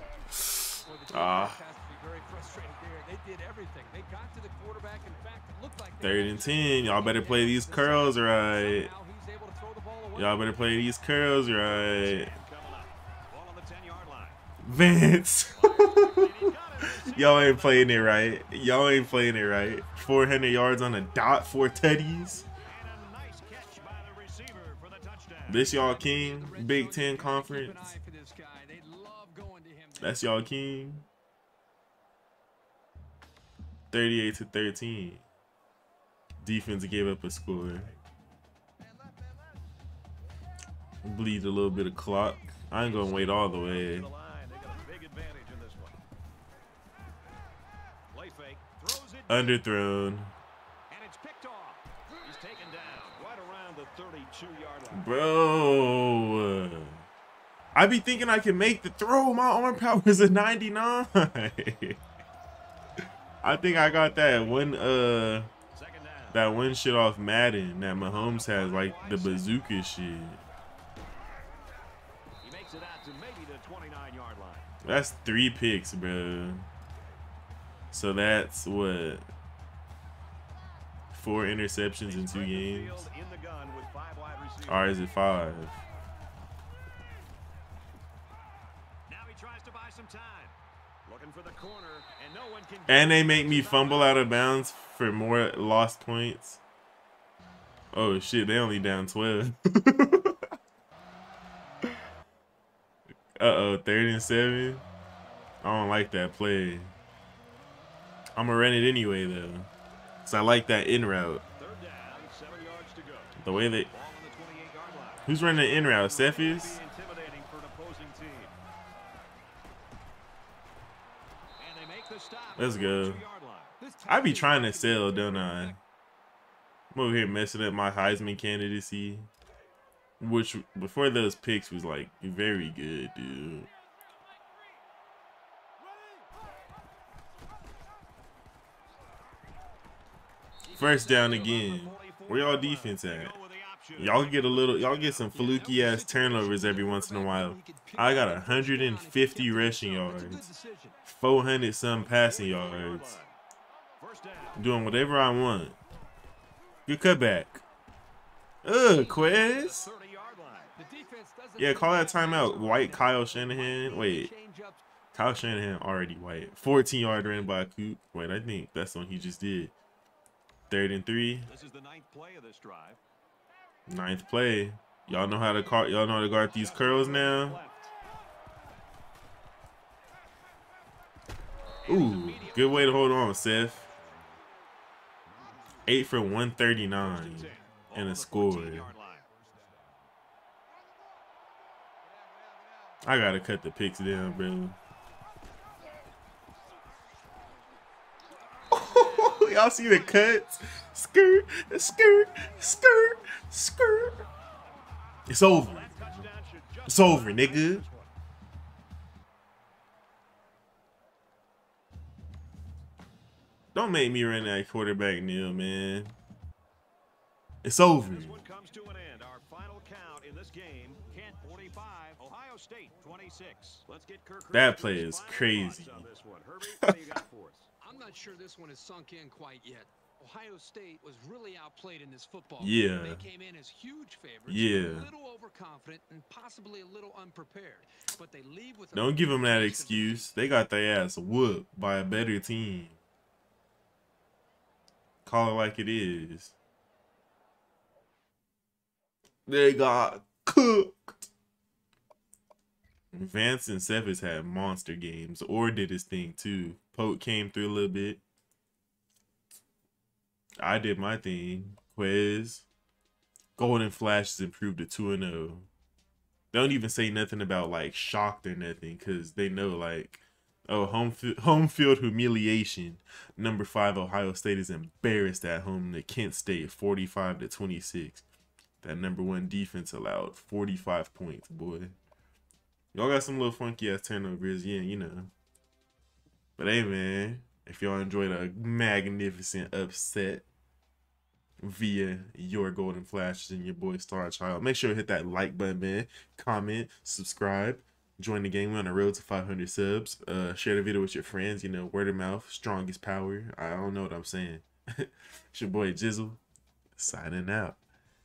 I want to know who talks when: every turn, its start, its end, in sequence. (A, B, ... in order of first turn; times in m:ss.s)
0:00.4-0:01.6 A
0:00.8-0:10.5 B
0:06.0-0:08.9 A
0:10.1-0:12.3 A
0:11.6-0:14.4 C
0:14.6-0:22.5 A
0:15.5-0:18.2 C
0:22.6-0:25.8 C
0:25.5-0:28.0 A
0:25.8-0:30.4 B
0:30.0-0:31.1 A
0:33.9-0:35.2 A
0:36.4-0:37.9 A
0:41.0-0:44.1 A
0:42.8-0:46.0 C
0:48.1-0:49.6 C
0:49.3-0:50.3 A
0:50.9-0:55.1 C
0:54.9-0:57.0 A
0:57.7-1:02.0 A
1:03.4-1:05.5 A
1:05.7-1:06.5 C
1:06.3-1:10.4 A
1:08.0-1:09.6 C
1:12.4-1:14.7 C
1:14.8-1:16.7 A
1:17.9-1:19.2 A
1:21.1-1:23.1 A
1:22.0-1:25.0 C
1:24.6-1:25.8 A
1:29.0-1:34.3 C
1:32.9-1:36.6 A
1:37.9-1:40.4 A
1:43.4-1:44.8 A
1:45.6-1:46.9 A
1:48.4-1:49.7 A
1:50.2-1:51.4 A
1:51.6-1:58.6 C
1:53.4-1:53.9 A
1:55.2-1:56.8 A
2:01.6-2:03.8 C
2:02.6-2:03.2 A
2:03.8-2:05.8 B
2:04.1-2:05.7 A
2:06.9-2:09.3 A
2:10.2-2:13.7 A
2:20.6-2:25.3 C
2:20.7-2:23.3 A
2:23.9-2:30.4 A
2:25.3-2:31.0 B
2:31.0-2:33.2 A
2:32.0-2:33.4 C
2:34.0-2:34.6 C
2:34.6-2:35.8 A
2:36.9-2:37.6 A
2:38.6-2:39.9 A
2:38.9-2:40.7 C
2:40.8-2:44.8 B
2:41.6-2:44.3 A
2:45.1-2:49.7 A
2:50.7-2:51.5 A
2:51.4-2:53.0 C
2:53.9-2:57.6 A
2:56.4-2:57.9 C
3:01.8-3:03.2 C
3:01.9-3:03.8 A
3:05.8-3:08.9 A
3:07.0-3:09.3 C
3:13.0-3:14.8 A
3:18.7-3:20.4 C
3:18.7-3:24.2 A
3:25.3-3:26.2 A
3:25.5-3:28.1 C
3:26.8-3:27.8 A
3:33.7-3:36.2 A
3:37.6-3:38.4 A
3:38.0-3:47.7 C
3:44.5-3:46.1 A
3:46.7-3:47.0 A
3:47.8-4:00.4 B
3:52.6-3:53.2 A
3:54.5-3:55.1 A
3:58.9-4:03.0 A
4:05.2-4:06.5 A
4:09.4-4:11.3 A
4:13.1-4:18.2 A
4:20.6-4:22.6 A
4:23.6-4:25.7 A
4:26.5-4:38.2 A
4:38.8-4:41.9 A
4:42.9-4:45.3 A
4:46.6-4:50.4 A
4:51.6-5:06.4 A
5:07.0-5:07.8 A